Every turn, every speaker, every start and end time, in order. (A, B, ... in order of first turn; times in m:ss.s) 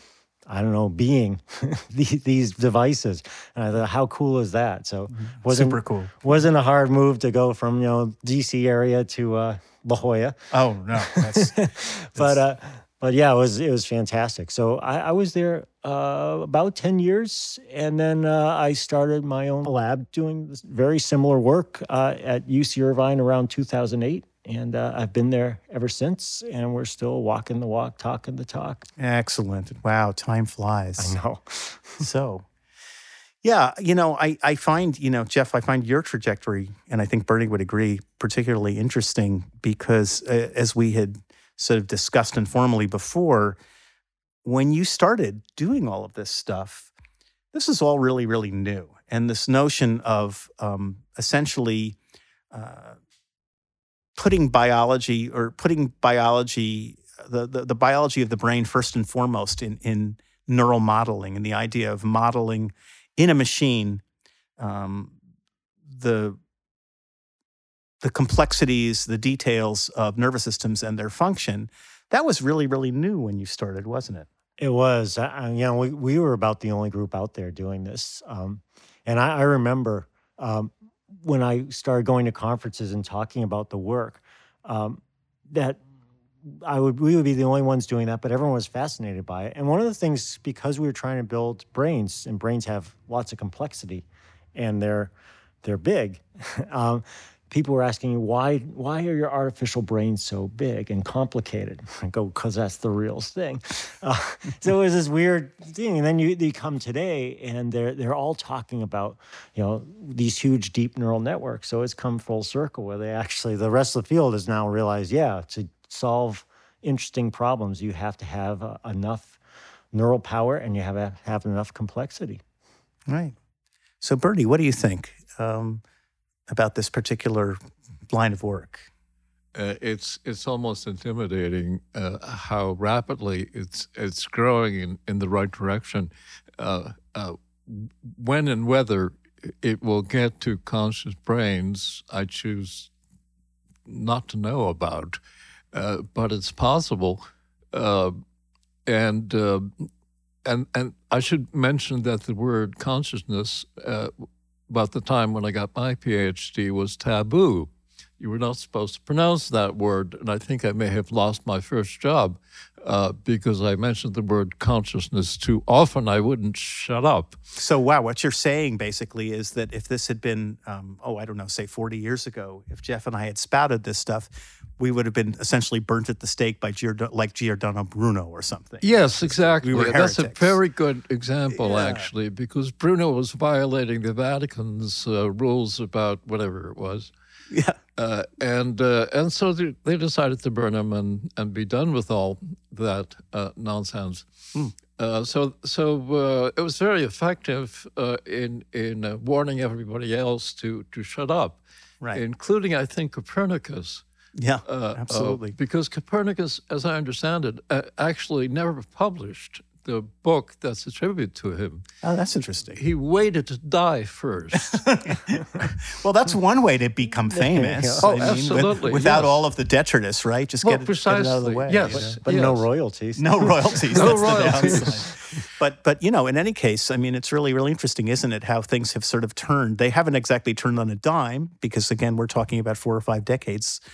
0:00.5-0:10.4 A
0:05.1-0:06.1 B
0:10.5-0:11.6 B
0:11.0-0:28.8 A
0:12.1-0:12.4 B
0:29.0-0:31.1 B
0:31.0-0:32.0 A
0:32.0-0:32.4 B
0:33.4-0:43.6 B
0:44.4-0:46.9 B
0:47.5-0:52.0 B
0:52.5-0:53.0 B
0:54.2-1:04.0 B
1:04.6-1:05.2 B
1:05.9-1:06.4 B
1:08.0-1:14.3 B
1:14.6-1:25.8 A
1:26.4-1:35.1 A
1:35.6-1:59.4 A
1:59.9-2:02.4 A
2:03.1-2:03.4 B
2:04.0-2:05.8 B
2:06.5-2:07.6 B
2:08.1-2:08.9 B
2:09.5-2:22.9 C
2:23.8-2:25.2 C
2:25.7-2:28.2 C
2:28.8-2:29.9 C
2:30.4-2:34.1 C
2:34.7-2:47.4 C
2:47.6-3:00.6 B
2:58.8-3:07.1 C
3:01.5-3:02.1 B
3:07.5-3:07.8 B
3:08.0-3:14.3 C
3:14.8-3:21.6 C
3:22.1-3:24.0 C
3:24.4-3:25.6 B
3:24.6-3:31.8 C
3:32.0-3:32.8 B
3:32.8-3:34.9 C
3:34.7-3:42.2 B
3:37.3-3:38.3 A
3:38.0-3:39.4 C
3:40.6-3:42.6 C
3:41.9-3:44.9 A
3:43.2-3:53.8 B
3:43.9-3:45.0 C